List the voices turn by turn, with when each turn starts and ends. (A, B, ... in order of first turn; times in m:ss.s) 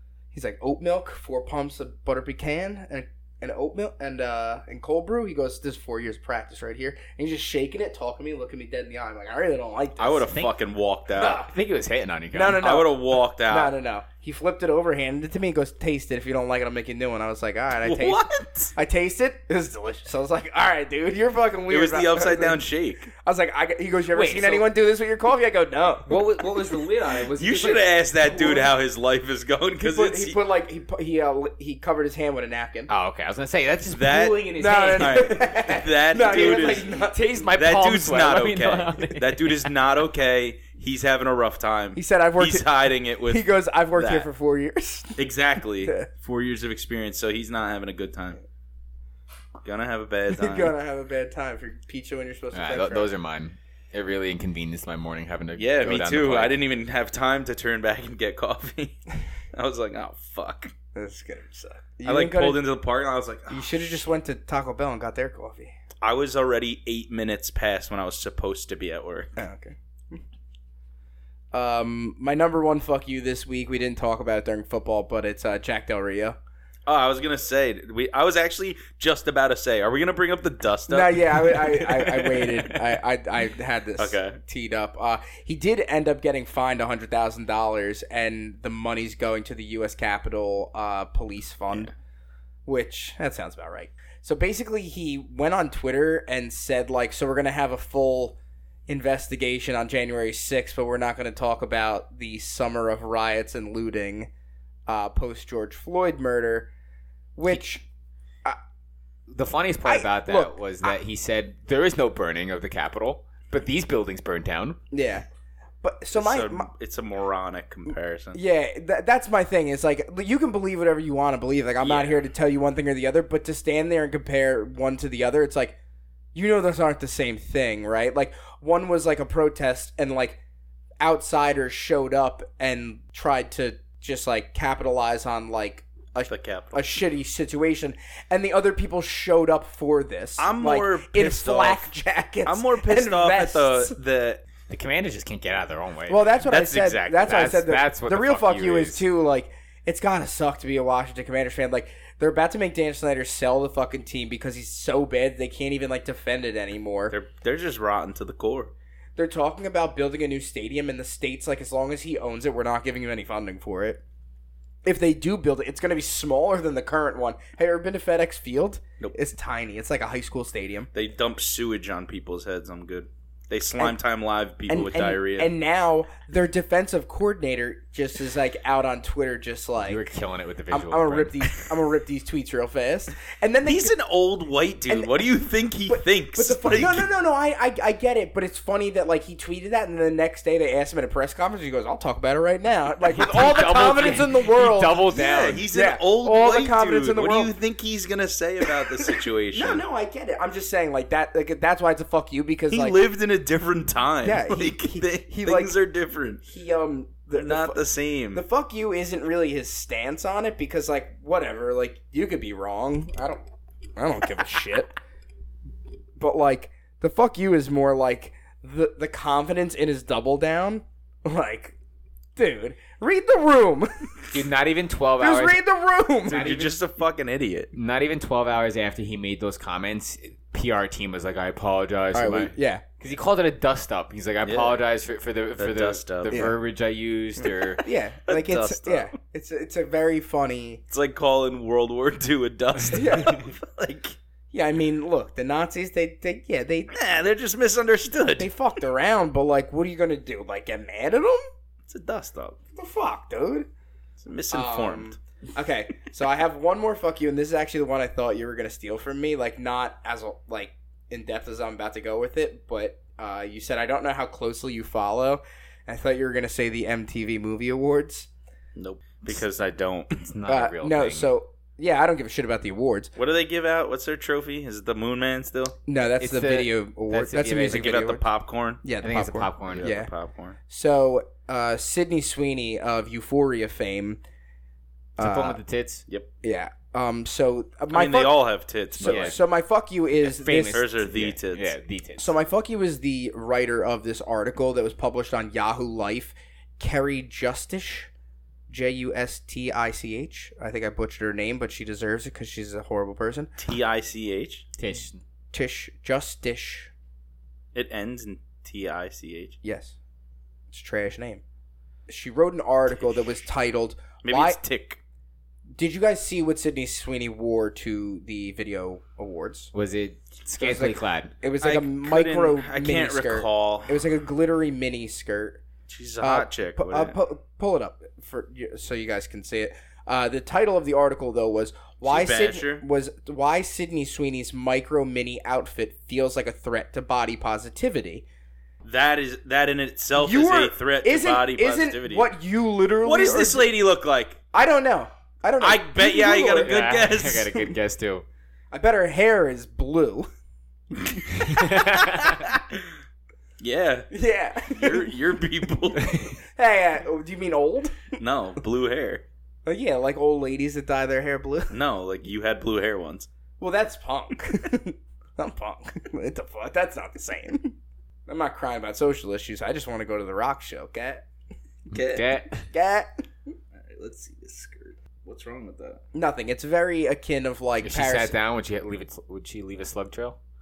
0:00.3-0:10.3 A
0:10.0-0:11.4 B
0:11.1-0:12.6 C
0:11.2-0:11.5 A
0:12.3-0:22.6 A
0:12.6-0:13.7 B
0:17.8-0:18.7 B
0:21.7-0:23.1 B
0:23.2-0:26.1 A
0:24.1-0:24.7 C
0:26.1-0:27.9 C
0:27.3-0:30.4 B
0:28.3-0:28.7 A
0:29.8-0:32.9 A
0:32.9-0:39.7 C
0:33.8-0:34.4 B
0:34.6-0:37.2 A
0:35.0-0:36.9 B
0:37.5-0:44.3 B
0:41.9-0:42.7 A
0:43.2-0:45.2 A
0:45.2-0:48.4 B
0:49.6-0:50.7 B
0:50.3-0:53.1 A
0:52.5-0:56.6 C
0:55.6-0:59.0 B
0:59.5-1:00.7 B
1:00.9-1:02.6 A
1:02.0-1:03.8 B
1:03.5-1:05.7 A
1:06.0-1:09.3 B
1:09.4-1:10.2 A
1:11.5-1:16.4 A
1:16.8-1:22.8 B
1:20.9-1:31.9 A
1:24.0-1:24.4 B
1:32.6-1:44.3 A
1:44.9-1:46.7 A
1:47.4-1:47.8 A
1:49.3-1:54.8 C
1:49.8-1:51.0 A
1:54.9-1:55.2 A
1:55.8-1:56.7 A
1:56.1-1:58.4 B
1:58.3-2:05.8 A
2:01.8-2:02.2 B
2:06.3-2:10.4 A
2:11.0-2:23.9 A
2:16.3-2:16.8 B
2:20.4-2:21.9 B
2:22.4-2:24.4 B
2:24.7-2:26.4 C
2:26.1-2:37.2 A
2:26.4-2:27.4 B
2:27.1-2:29.0 C
2:37.1-2:38.7 B
2:39.2-2:44.0 A
2:44.8-2:50.9 A
2:50.9-2:55.5 B
2:54.7-3:00.0 A
2:59.8-3:01.5 C
3:00.7-3:03.9 A
3:03.6-3:07.1 B
3:05.9-3:17.5 A
3:13.1-3:15.6 C
3:15.1-3:19.8 B
3:19.5-3:23.0 A
3:22.7-3:26.4 B
3:24.2-3:25.7 A
3:26.4-3:33.4 A
3:27.3-3:28.4 B
3:34.0-3:34.9 A
3:36.2-3:41.8 A
3:42.4-3:44.3 A
3:44.3-3:45.6 C
3:45.2-3:46.6 A
3:46.3-3:46.8 C
3:46.3-3:47.7 B
3:47.7-3:57.8 C
3:52.1-3:52.8 A
3:54.4-3:54.8 B
3:55.6-3:56.4 B
3:56.3-3:56.6 A
3:57.8-4:00.8 A
3:58.3-3:59.1 B
4:00.9-4:04.2 B
4:02.9-4:03.5 A
4:04.5-4:06.9 A
4:06.9-4:08.5 B
4:08.4-4:11.4 A
4:11.8-4:12.6 B
4:12.8-4:13.7 A
4:14.2-4:15.2 B
4:14.5-4:28.3 A
4:28.8-4:30.2 B
4:30.2-4:31.3 C
4:30.5-4:33.1 A
4:33.2-4:35.8 B
4:35.9-4:38.2 A
4:36.2-4:38.0 C
4:37.7-4:38.8 B
4:38.8-4:40.1 A
4:39.0-4:39.9 C
4:39.6-4:40.6 B
4:40.7-4:44.2 A
4:45.2-4:45.6 A
4:45.2-4:46.0 C
4:46.4-4:50.8 A
4:47.9-4:49.4 B
4:49.0-4:49.4 C
4:50.2-4:52.3 C
4:50.7-4:51.7 B
4:52.2-4:58.1 A
4:58.7-5:03.5 A
5:03.6-5:04.6 B
5:04.8-5:05.2 C
5:05.5-5:06.9 A
5:07.7-5:09.6 B
5:09.6-5:10.0 A
5:10.7-5:11.4 A
5:12.1-5:14.6 A
5:14.2-5:15.0 B
5:15.7-5:19.7 A
5:19.7-5:21.3 C
5:20.6-5:25.6 A
5:21.6-5:24.0 B
5:25.9-5:27.2 B
5:26.2-5:38.2 A
5:32.0-5:32.8 B
5:38.8-5:42.3 B
5:40.2-5:43.7 A
5:43.0-5:44.4 B
5:44.5-5:46.9 A
5:45.6-5:47.5 B
5:46.6-5:48.2 C
5:48.7-5:50.3 A
5:51.4-5:52.4 C
5:52.1-5:52.8 B
5:53.6-5:54.1 B
5:54.1-5:55.2 A
5:54.7-5:56.2 B
5:56.0-5:58.2 A
5:58.2-5:59.2 B
5:59.6-6:01.8 A
6:01.7-6:03.3 B
6:03.6-6:07.7 A
6:08.3-6:11.2 A
6:11.9-6:12.3 B
6:11.9-6:12.7 C
6:12.7-6:13.1 A
6:13.7-6:16.0 B
6:16.1-6:18.3 A
6:17.8-6:20.4 C